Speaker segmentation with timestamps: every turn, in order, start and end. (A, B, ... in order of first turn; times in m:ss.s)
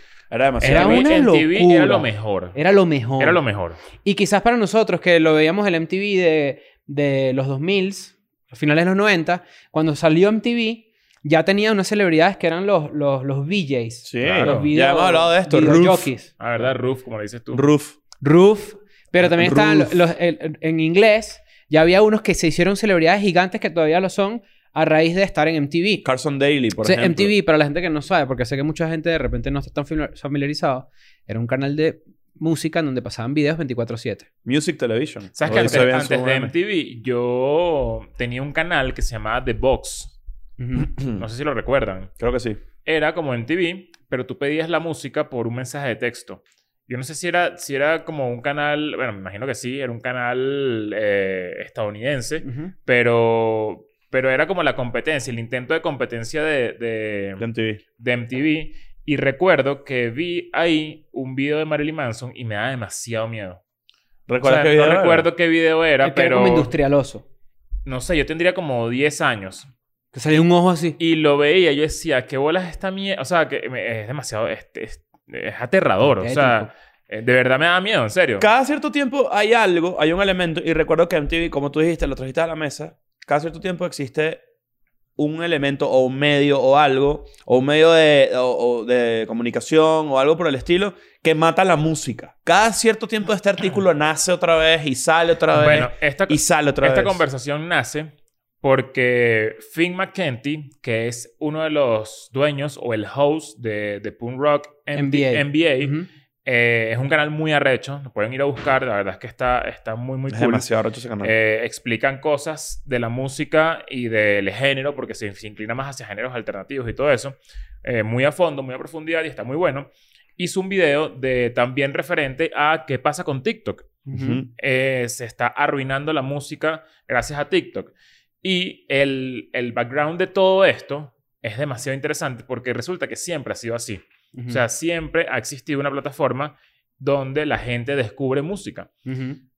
0:00.3-0:01.1 A
0:00.6-0:02.6 B
0:00.6-0:03.4 C
0:03.2-0:03.8 B
0:04.0-0:16.3 C
0:14.0-0:16.1 A
0:14.2-0:14.7 B
0:16.4-0:17.7 B
0:17.5-0:18.0 A
0:18.2-0:26.0 C
0:19.2-0:20.0 A
0:26.0-0:27.3 A
0:26.8-0:34.3 C
0:34.4-0:36.5 A
0:35.3-0:40.1 B
0:35.4-0:35.8 C
0:40.6-0:40.9 C
0:40.8-0:41.2 A
0:41.1-0:42.1 B
0:42.2-0:42.6 A
0:42.8-0:57.4 B
0:52.4-0:52.7 C
0:57.4-0:57.8 A
0:58.0-1:03.6 B
1:04.3-1:05.3 A
1:04.4-1:06.7 B
1:06.0-1:07.2 C
1:07.8-1:09.7 B
1:10.1-1:11.0 C
1:11.0-1:18.5 B
1:16.0-1:16.7 C
1:18.4-1:24.4 A
1:25.2-1:37.2 A
1:35.5-1:45.9 B
1:44.9-1:46.1 C
1:46.4-1:50.7 B
1:50.3-1:51.3 A
1:51.2-2:04.0 B
2:04.1-2:04.4 C
2:04.1-2:04.5 A
2:04.6-2:07.9 B
2:08.4-2:18.9 B
2:14.3-2:14.6 C
2:19.0-2:19.4 C